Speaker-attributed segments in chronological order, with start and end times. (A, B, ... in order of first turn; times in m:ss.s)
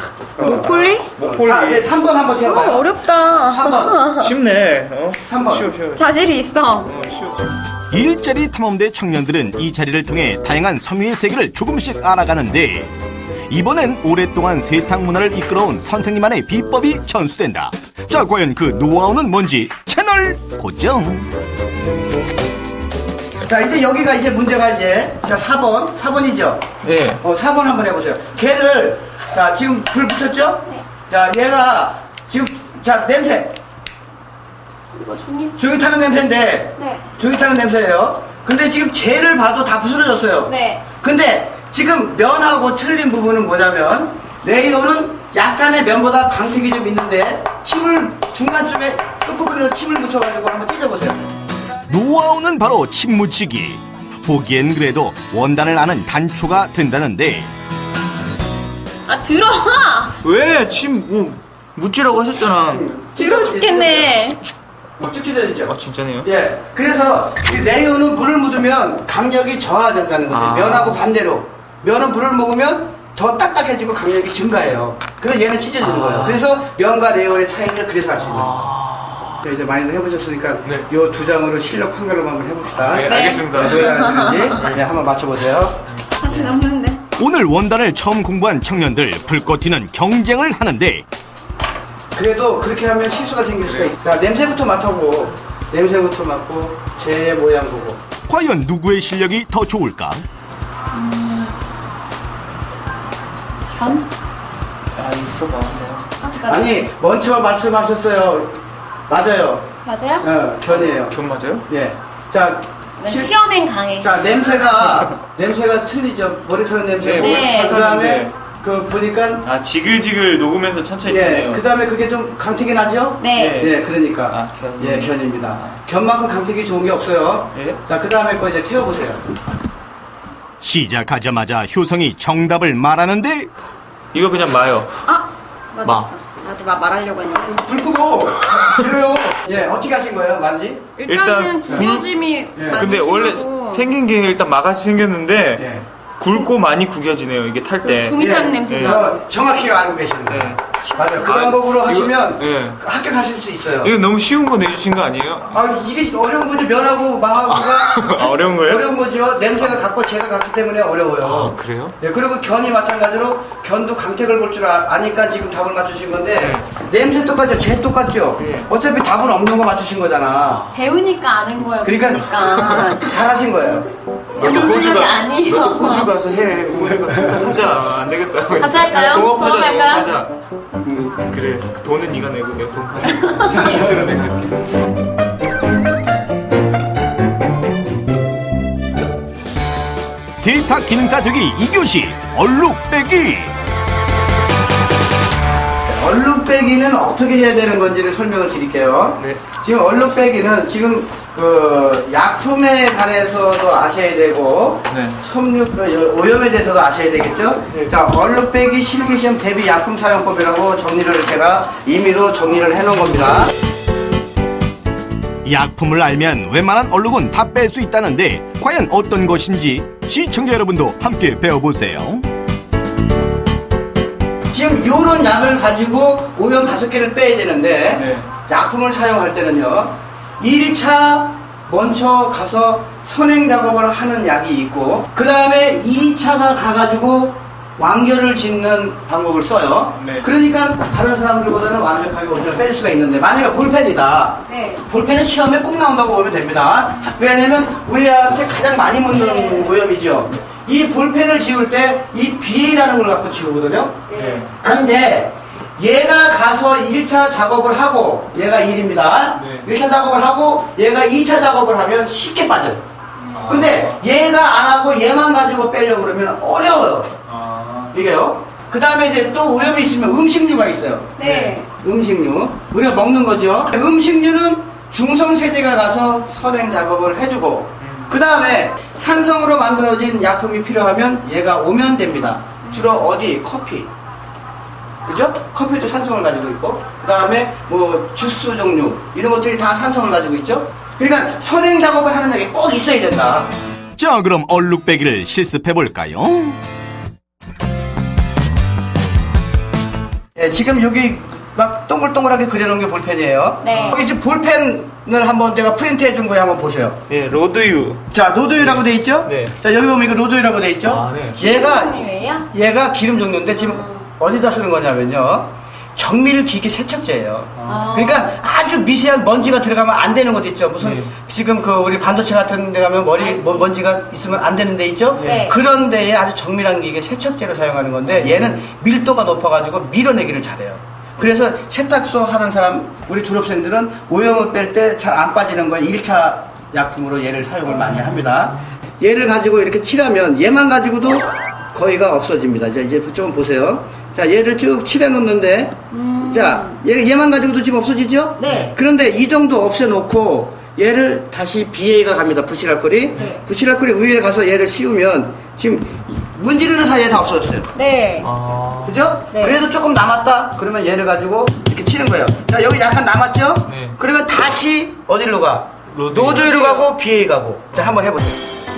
0:00.4-0:04.0 A
0:00.4-0:01.9 B
0:00.4-0:01.1 C
0:02.4-0:04.3 C
0:04.2-0:06.1 B
0:05.2-0:05.7 A
0:06.0-0:06.9 C
0:06.8-0:07.6 B
0:07.9-0:12.9 D
0:13.5-0:21.3 D
0:23.5-0:26.6 A
0:26.8-0:27.2 B
0:27.2-0:33.6 A
0:34.9-0:35.6 C
0:35.6-0:51.3 A
0:36.8-0:37.1 C
0:40.5-0:40.8 C
0:51.9-0:57.5 D
0:59.1-1:00.2 C
1:00.2-1:02.9 B
1:02.7-1:04.2 A
1:03.2-1:04.4 C
1:05.0-1:18.8 A
1:05.7-1:06.3 B
1:10.3-1:11.1 B
1:15.8-1:16.4 B
1:18.3-1:19.4 B
1:19.4-1:25.8 A
1:22.8-1:24.8 B
1:23.0-1:24.6 C
1:26.2-1:27.0 C
1:27.2-1:31.0 D
1:32.1-1:38.0 A
1:33.7-1:34.0 B
1:38.3-1:40.2 D
1:40.9-1:41.6 C
1:43.7-1:44.1 C
1:44.9-1:46.1 B
1:46.2-1:46.8 C
1:46.5-1:49.7 A
1:49.8-1:50.3 C
1:50.2-1:51.2 A
1:50.7-1:51.7 B
1:51.7-1:53.3 A
1:53.0-1:54.1 C
1:54.0-1:59.5 A
1:57.0-1:58.3 B
1:57.2-1:57.8 C
1:59.4-2:01.6 B
2:01.0-2:09.2 A
2:03.2-2:03.7 C
2:03.4-2:03.8 B
2:04.3-2:05.8 B
2:07.6-2:07.8 B
2:10.6-2:13.5 D
2:14.1-2:15.0 B
2:15.1-2:17.6 C
2:15.8-2:16.1 B
2:17.5-2:20.9 A
2:21.0-2:23.8 C
2:21.1-2:22.1 B
2:21.7-2:22.0 A
2:22.6-2:22.8 A
2:22.7-2:29.0 B
2:25.6-2:25.8 A
2:27.8-2:29.2 C
2:28.2-2:33.9 A
2:30.3-2:32.8 B
2:31.0-2:31.3 C
2:33.8-2:35.5 B
2:35.4-2:50.6 A
2:37.6-2:38.9 B
2:41.2-2:42.0 B
2:46.4-2:46.7 B
2:48.4-2:48.7 B
2:50.4-2:50.8 B
2:50.7-2:53.2 C
2:51.8-2:53.9 A
2:52.4-2:52.9 B
2:54.4-2:56.1 C
2:54.4-3:00.3 B
2:56.8-2:57.6 A
2:58.6-3:00.1 C
2:58.9-2:59.6 A
3:00.9-3:04.6 B
3:03.2-3:03.5 C
3:03.6-3:03.9 A
3:10.4-3:13.6 D
3:15.9-3:33.5 A
3:24.9-3:25.2 B
3:35.4-3:42.3 D
3:44.5-4:14.1 A
3:48.0-3:48.3 B
4:00.0-4:00.3 B
4:04.5-4:04.8 C
4:09.1-4:09.7 C
4:14.1-4:14.5 C
4:14.1-4:14.5 B
4:14.6-4:22.8 A
4:19.4-4:19.7 B
4:23.2-4:23.7 C
4:23.3-4:24.0 B
4:23.5-4:27.2 A
4:27.3-4:27.9 B
4:27.9-4:31.2 A
4:31.2-4:31.7 C
4:31.2-4:31.6 B
4:31.7-4:43.9 A
4:37.8-4:38.1 B
4:42.6-4:43.0 C
4:45.1-4:53.5 A
4:54.0-4:56.6 D
5:00.4-5:07.0 A
5:03.6-5:04.0 C
5:03.7-5:04.0 B
5:07.1-5:08.1 B
5:08.1-5:57.7 A
5:08.6-5:09.6 B
5:10.9-5:11.4 B
5:11.4-5:12.5 C
5:13.6-5:14.0 C
5:17.6-5:17.9 B
5:17.7-5:18.4 C
5:20.8-5:21.1 B
5:23.2-5:23.4 C
5:25.2-5:25.5 B
5:25.2-5:25.6 C
5:28.2-5:28.5 B
5:37.8-5:38.3 B
5:45.9-5:46.8 C
5:48.4-5:48.8 C
5:48.4-5:48.7 B
5:53.2-5:53.4 C
5:57.8-5:58.3 C
5:58.2-5:59.1 B
5:58.8-6:08.4 A
5:59.3-5:59.6 C
6:03.7-6:04.0 B
6:05.9-6:06.5 B
6:06.3-6:06.9 C